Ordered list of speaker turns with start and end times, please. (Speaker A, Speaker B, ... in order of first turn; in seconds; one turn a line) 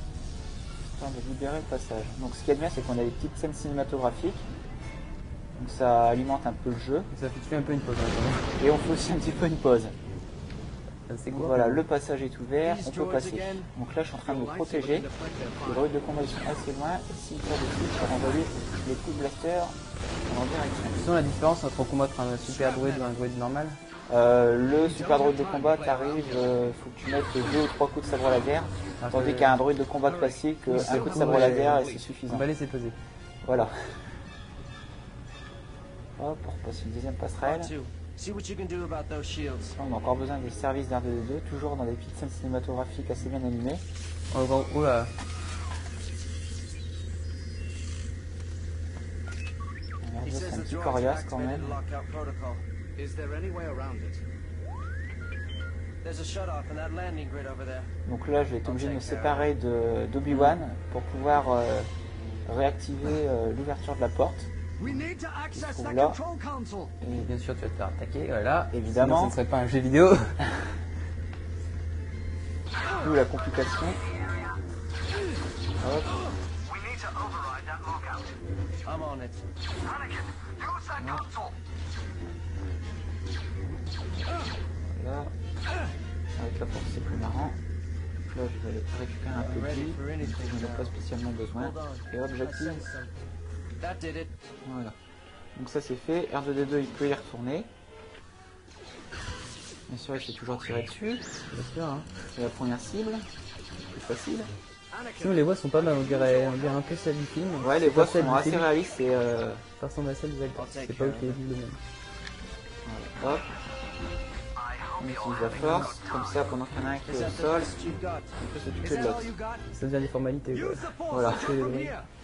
Speaker A: 0.8-4.5
Speaker A: 5.6-7.1
Speaker B: 7.1-8.6
Speaker A: 8.6-9.9
Speaker B: 11.1-11.8
Speaker A: 11.3-15.1
Speaker C: 12.6-13.7
Speaker C: 14.2-15.9
Speaker A: 15.6-19.7
Speaker C: 18.0-18.5
Speaker A: 20.2-21.1
Speaker B: 20.9-23.8
Speaker C: 22.4-23.1
Speaker A: 24.1-32.5
Speaker C: 24.8-26.5
Speaker B: 29.0-29.6
Speaker C: 30.0-32.1
Speaker B: 30.7-33.0
Speaker A: 33.4-34.1
Speaker A: 36.2-37.7
Speaker C: 37.4-39.7
Speaker A: 39.7-43.8
Speaker B: 44.3-45.1
Speaker A: 50.0-51.8
Speaker C: 50.2-54.2
Speaker C: 56.0-57.9
Speaker A: 58.0-61.9
Speaker C: 58.6-59.5
Speaker B: 60.3-60.5
Speaker A: 62.5-64.5
Speaker C: 64.8-66.9
Speaker A: 65.5-66.2
Speaker A: 67.0-67.3
Speaker B: 67.1-70.3
Speaker A: 68.7-69.3
Speaker A: 73.0-74.0
Speaker A: 75.8-76.2
Speaker C: 76.7-78.2
Speaker C: 78.8-79.4
Speaker C: 80.6-81.5
Speaker A: 81.0-81.2
Speaker A: 84.9-85.3
Speaker A: 86.3-87.6
Speaker A: 88.3-92.9
Speaker C: 89.3-91.0
Speaker C: 91.5-93.1
Speaker C: 93.8-94.5
Speaker A: 94.6-95.0
Speaker A: 95.5-97.7
Speaker A: 99.9-101.2
Speaker B: 101.5-102.1
Speaker A: 102.3-103.2
Speaker A: 103.9-104.5
Speaker C: 104.9-107.0
Speaker B: 105.2-108.7
Speaker A: 107.6-109.6
Speaker B: 109.8-111.8
Speaker C: 110.5-111.4
Speaker A: 112.8-113.5
Speaker C: 114.8-116.4
Speaker A: 115.0-117.7
Speaker C: 117.0-119.6
Speaker A: 118.4-119.3
Speaker B: 119.7-121.9
Speaker C: 120.5-122.1
Speaker A: 121.1-121.6